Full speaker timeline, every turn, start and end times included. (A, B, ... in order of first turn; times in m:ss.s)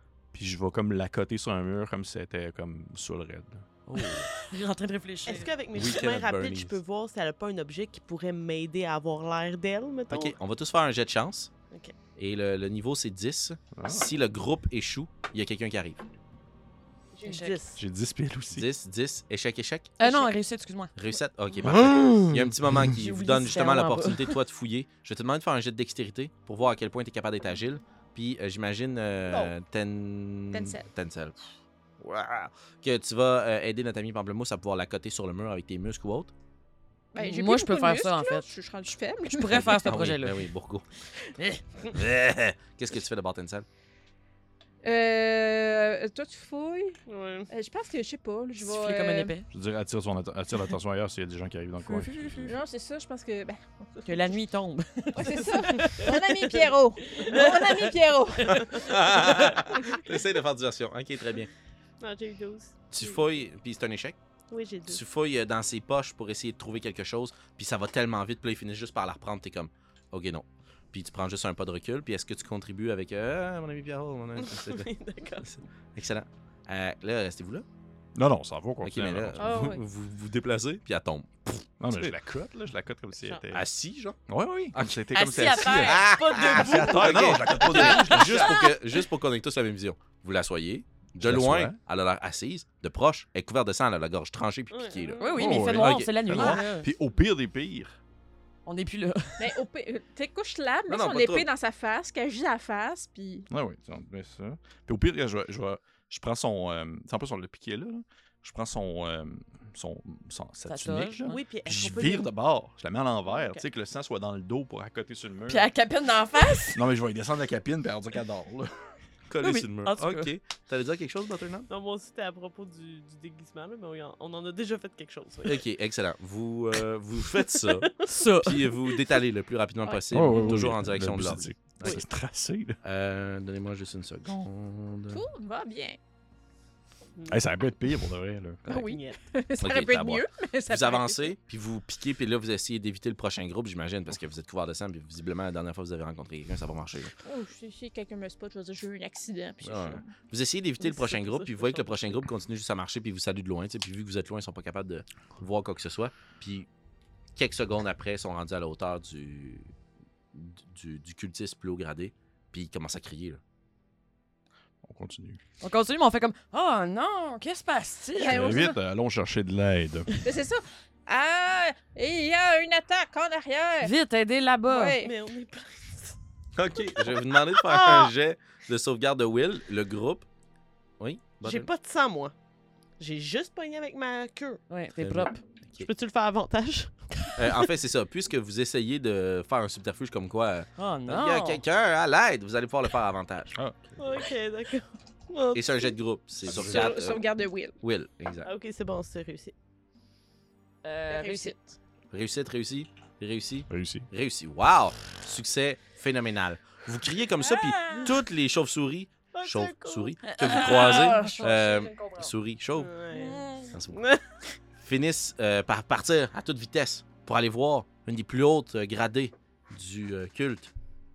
0:00.3-0:03.7 A
0:03.9-0:05.5 B
0:03.9-0:04.3 C
0:05.2-0:10.4 D
0:05.7-0:06.8 C
0:10.1-0:11.5 C
0:12.2-0:16.0 C
0:13.7-0:14.1 A
0:17.2-0:17.6 B
0:17.2-0:17.8 D
0:17.7-0:18.7 A
0:18.5-0:20.0 C
0:20.0-0:21.0 B
0:21.0-0:31.4 C
0:21.6-0:22.3 A
0:22.9-0:24.4 B
0:30.5-0:30.9 E
0:32.0-0:36.3 C
0:37.1-0:40.1 E
0:37.2-0:38.4 B
0:39.3-0:40.5 B
0:39.6-0:40.9 C
0:41.9-0:43.7 C
0:44.8-0:49.3 E
0:47.1-0:47.5 D
0:48.6-0:49.5 B
0:49.5-0:52.6 A
0:52.4-0:54.4 E
0:54.0-0:56.3 B
0:55.1-0:59.0 E
0:57.0-0:57.7 B
0:57.2-0:57.8 D
0:58.6-1:01.5 C
1:02.0-1:03.2 D
1:02.9-1:04.2 C
1:04.5-1:05.0 D
1:04.9-1:14.9 C
1:14.5-1:15.6 D
1:15.4-1:17.7 C
1:18.1-1:19.7 A
1:18.8-1:22.2 C
1:19.4-1:19.8 E
1:21.8-1:23.6 A
1:23.5-1:24.2 C
1:24.3-1:28.7 A
1:24.7-1:25.0 C
1:25.1-1:26.9 B
1:25.6-1:36.6 C
1:26.1-1:28.2 D
1:31.2-1:31.8 A
1:34.7-1:35.6 D
1:35.2-1:36.9 B
1:35.3-1:38.0 A
1:38.7-1:39.6 B
1:39.4-1:43.5 E
1:40.9-1:41.5 C
1:43.5-1:55.7 A
1:50.7-1:51.9 B
1:51.3-1:52.3 D
1:55.5-1:56.8 E
1:55.7-1:56.7 B
1:56.7-1:59.0 A
1:59.3-2:01.7 C
1:59.4-2:00.3 B
2:01.7-2:05.6 D
2:05.4-2:12.0 C
2:07.5-2:08.1 D
2:08.0-2:08.7 B
2:10.1-2:12.8 A
2:12.8-2:15.2 C
2:15.1-2:16.0 E
2:17.2-2:17.5 D
2:17.3-2:18.7 A
2:18.6-2:19.2 D
2:18.7-2:21.3 E
2:19.6-2:27.1 C
2:27.2-2:30.1 E
2:29.6-2:36.7 C
2:30.8-2:32.2 D
2:37.3-2:39.7 C
2:40.3-2:43.4 C
2:44.8-2:45.4 A
2:45.6-2:48.7 B
2:48.2-2:48.8 E
2:48.3-2:50.2 A
2:50.2-2:53.9 E
2:53.8-2:55.0 B
2:54.7-2:55.1 E
2:55.0-2:56.2 D
2:56.6-3:00.3 C
2:57.1-2:58.1 D
3:01.0-3:01.7 C
3:01.4-3:02.3 D
3:03.0-3:04.6 D
3:04.7-3:05.4 B
3:05.0-3:05.9 C
3:05.7-3:07.6 D
3:07.4-3:13.6 C
3:10.8-3:11.6 B
3:13.5-3:14.2 A
3:14.0-3:15.9 D
3:15.5-3:17.2 C
3:16.5-3:17.8 E
3:17.8-3:18.5 C
3:18.4-3:19.6 D
3:20.8-3:21.6 B
3:21.1-3:21.6 E
3:22.1-3:32.9 C
3:23.7-3:24.1 A
3:29.3-3:30.2 D
3:30.2-3:32.3 B
3:30.7-3:31.7 E
3:32.7-3:34.4 D
3:33.1-3:33.7 B
3:33.7-3:34.0 C
3:34.8-3:40.7 C